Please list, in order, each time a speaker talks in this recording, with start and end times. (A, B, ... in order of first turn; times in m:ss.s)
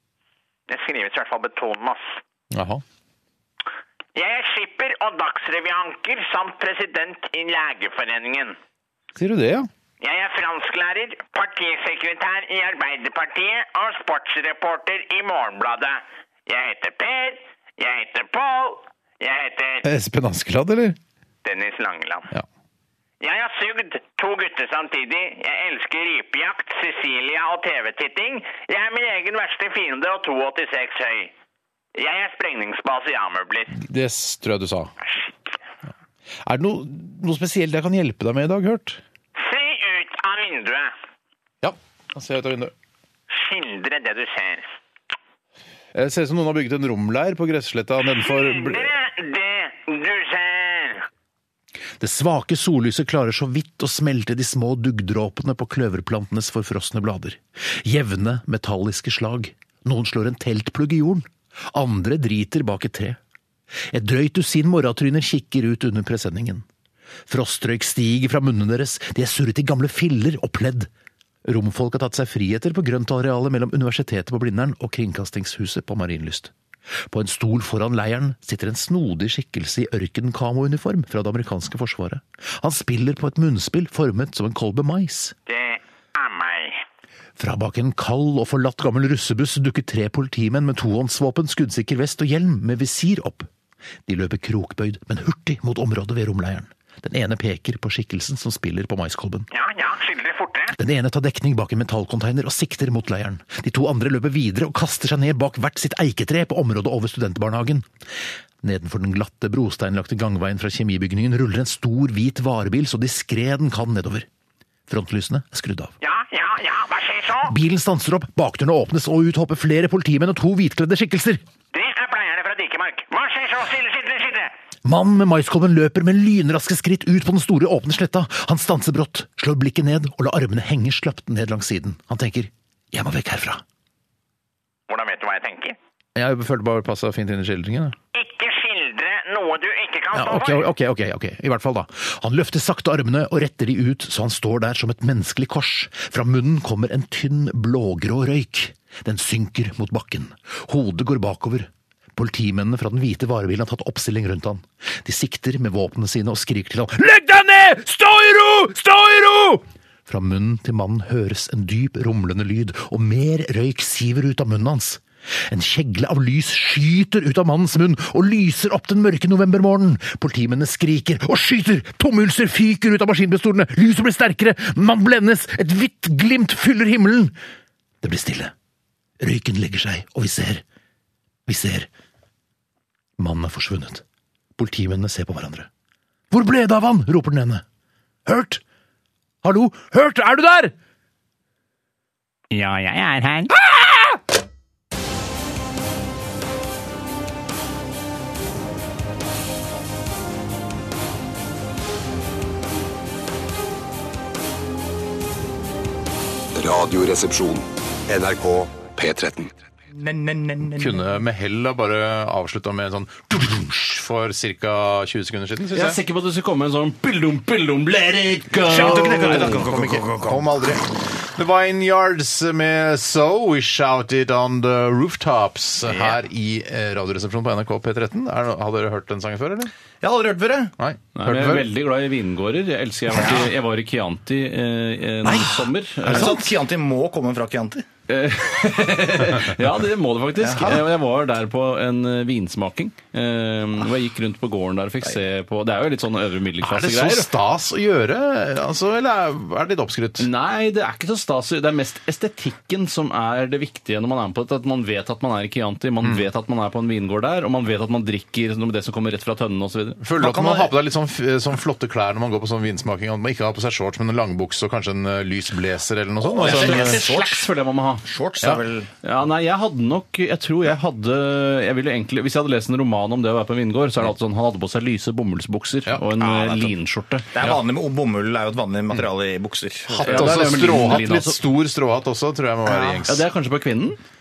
0:00.7-0:02.2 A
0:02.5-0:02.8 B
0:04.2-0:08.6 A
0:09.2-0:09.7 B
0:10.0-0:19.9 A
0:19.8-0:21.0 B
0:21.4-0:22.3 A
0:23.2-0:31.3 A
0:32.0-0:33.8 A
0:33.7-0:34.9 B
0:36.4-0:39.0 B
0:39.4-0:40.9 A
0:41.6-0:42.7 B
0:43.3-0:44.7 A
0:45.9-0:48.9 B
0:48.1-0:51.1 A
0:52.0-1:03.2 B
1:03.9-1:06.7 B
1:07.3-1:10.9 B
1:11.4-1:16.5 B
1:17.0-1:25.4 B
1:25.5-1:26.8 A
1:27.4-1:33.5 B
1:34.1-1:39.5 B
1:39.5-1:40.8 A
1:40.8-1:47.9 B
1:48.6-1:54.3 B
1:54.9-1:55.9 B
1:56.0-1:57.6 A
1:57.4-2:01.4 B
2:01.7-2:04.5 A
2:04.8-2:13.6 B
2:14.9-2:15.8 A
2:16.2-2:18.0 B
2:18.1-2:20.7 A
2:20.1-2:57.4 B
2:58.0-2:58.5 B
2:59.2-3:00.6 B
3:01.5-3:01.9 B
3:03.2-3:04.0 B
3:04.6-3:05.7 B
3:06.3-3:07.6 B
3:08.3-3:08.6 B
3:09.4-3:10.7 B
3:26.6-3:29.5 C
3:29.9-3:31.0 D
3:30.7-3:36.0 B
3:35.7-3:39.6 E
3:38.7-3:40.7 D
3:38.7-3:49.7 B
3:45.9-3:46.2 D
3:50.0-3:50.8 D
3:50.8-3:51.7 B
3:51.2-3:56.4 E
3:55.3-3:57.8 D
3:56.1-3:56.4 B
3:58.1-4:07.3 E
4:00.4-4:00.8 D
4:06.6-4:10.3 B
4:10.2-4:20.0 E
4:16.0-4:16.3 B
4:20.0-4:27.0 B
4:20.2-4:20.8 D
4:26.2-4:27.5 D
4:26.4-4:28.0 E
4:28.0-4:28.9 D
4:29.0-4:37.3 E
4:36.2-4:36.7 D
4:37.3-4:40.7 D
4:39.9-4:43.3 B
4:40.0-4:41.4 E
4:43.0-4:44.0 E